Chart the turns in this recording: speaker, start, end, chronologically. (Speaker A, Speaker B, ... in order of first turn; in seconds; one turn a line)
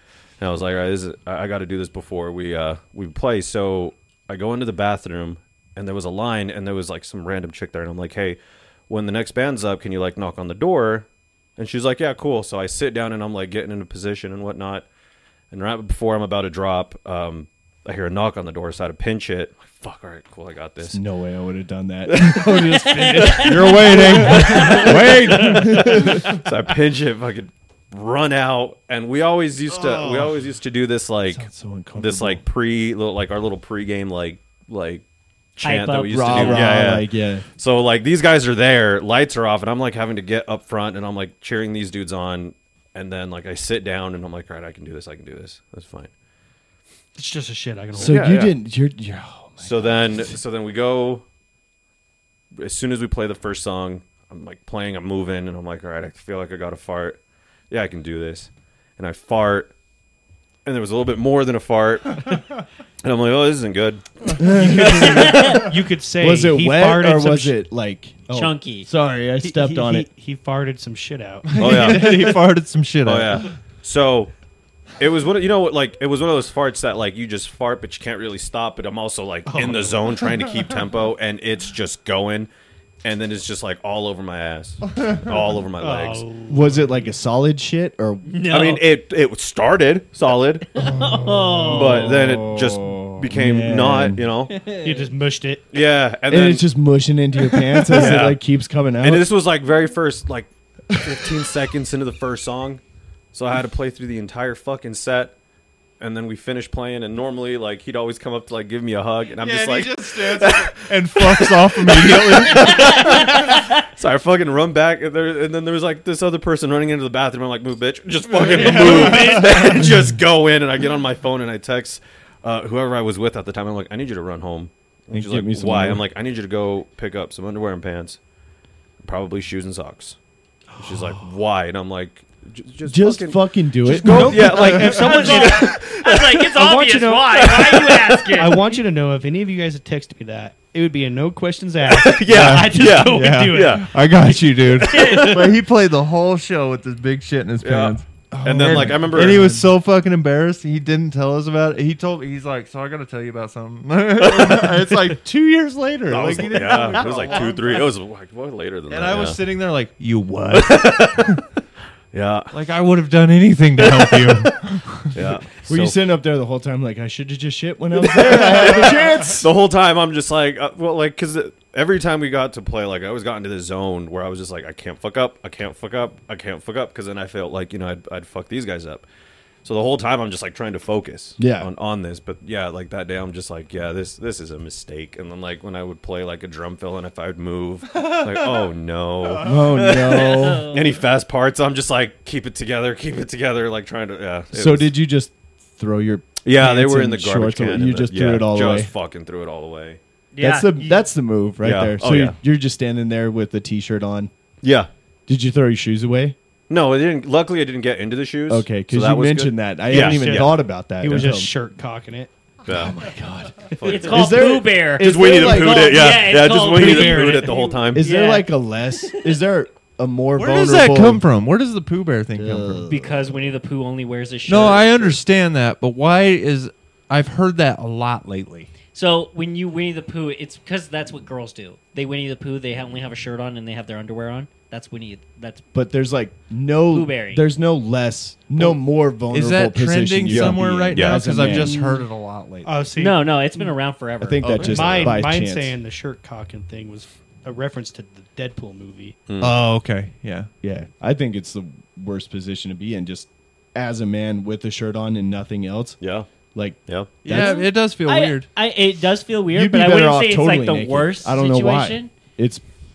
Speaker A: 0.4-14.9
Speaker A: 15.5-21.0
Speaker B: 20.8-26.4
Speaker A: 22.1-22.6
Speaker C: 22.7-23.5
Speaker A: 23.4-25.1
Speaker D: 23.4-25.9
Speaker C: 24.2-24.9
Speaker A: 26.2-35.0
Speaker B: 29.8-30.2
Speaker B: 31.3-32.4
Speaker A: 35.5-46.1
Speaker C: 35.6-36.6
Speaker B: 36.1-37.4
Speaker E: 47.1-48.5
Speaker B: 47.9-50.3
Speaker A: 48.0-48.3
Speaker A: 49.6-51.2
Speaker A: 52.6-57.2
Speaker A: 57.7-59.7
Speaker A: 60.6-62.4
Speaker A: 63.0-64.0
Speaker B: 64.3-65.6
Speaker C: 64.6-65.7
Speaker E: 64.9-67.5
Speaker B: 66.2-70.1
Speaker C: 68.3-68.9
Speaker E: 69.4-72.1
Speaker D: 71.5-73.5
Speaker A: 71.6-72.4
Speaker A: 73.0-74.3
Speaker A: 75.0-82.5
Speaker E: 79.5-80.3
Speaker A: 83.0-86.3
Speaker D: 85.0-85.2
Speaker E: 85.8-87.1
Speaker B: 86.5-88.3
Speaker C: 88.2-88.8
Speaker A: 88.5-90.7
Speaker C: 90.8-92.1
Speaker B: 91.0-94.2
Speaker A: 91.7-94.6
Speaker C: 94.5-95.1
Speaker E: 94.8-95.7
Speaker A: 95.7-96.6
Speaker B: 96.3-99.3
Speaker A: 97.9-98.4
Speaker A: 99.0-102.8
Speaker B: 100.9-101.4
Speaker A: 103.3-105.3
Speaker A: 106.0-128.2
Speaker D: 109.4-113.2
Speaker C: 112.6-113.8
Speaker E: 118.3-119.8
Speaker D: 118.4-119.9
Speaker B: 125.1-126.0
Speaker A: 129.0-130.2
Speaker A: 130.8-136.5
Speaker B: 132.8-134.8
Speaker E: 134.0-135.8
Speaker C: 135.0-138.7
Speaker E: 136.5-137.7
Speaker A: 137.4-138.1
Speaker E: 138.3-145.2
Speaker A: 141.8-143.9
Speaker D: 142.3-157.9
Speaker A: 144.7-145.5
Speaker C: 144.9-145.3
Speaker A: 147.6-149.6
Speaker B: 148.5-149.6
Speaker A: 154.2-154.7
Speaker A: 156.1-159.4
Speaker D: 158.9-161.4
Speaker A: 160.5-161.3
Speaker A: 162.1-162.5
Speaker D: 162.5-165.2
Speaker A: 163.8-164.5
Speaker A: 165.1-165.9
Speaker B: 165.6-169.5
Speaker A: 168.1-179.1
Speaker A: 179.6-194.9
Speaker B: 181.4-181.7
Speaker D: 187.9-188.7
Speaker D: 189.2-190.1
Speaker B: 189.4-190.7
Speaker C: 190.1-190.9
Speaker B: 194.5-198.9
Speaker A: 196.4-200.0
Speaker C: 200.3-201.1
Speaker B: 200.4-204.3
Speaker A: 201.6-202.4
Speaker A: 204.6-204.9
Speaker B: 205.3-206.3
Speaker A: 206.7-210.6
Speaker B: 208.5-211.5
Speaker E: 209.9-212.3
Speaker A: 212.7-213.1
Speaker B: 212.7-216.0
Speaker A: 213.7-214.4
Speaker C: 213.9-219.3
Speaker A: 215.0-218.1
Speaker E: 216.4-217.9
Speaker B: 217.9-221.2
Speaker D: 220.3-222.8
Speaker B: 222.3-223.4
Speaker C: 222.9-225.1
Speaker D: 224.5-228.7
Speaker C: 228.9-235.6
Speaker B: 235.7-241.8
Speaker C: 236.9-237.4
Speaker D: 239.3-242.7
Speaker A: 240.3-241.4
Speaker E: 242.6-243.7
Speaker C: 242.9-244.5
Speaker B: 244.2-245.8
Speaker A: 244.4-245.1
Speaker E: 244.6-249.2
Speaker A: 249.3-249.6
Speaker D: 249.4-250.5
Speaker B: 250.6-256.0
Speaker A: 256.0-256.3
Speaker B: 256.5-257.7
Speaker A: 256.9-257.1
Speaker D: 257.2-258.5
Speaker C: 257.3-262.1
Speaker B: 259.5-262.6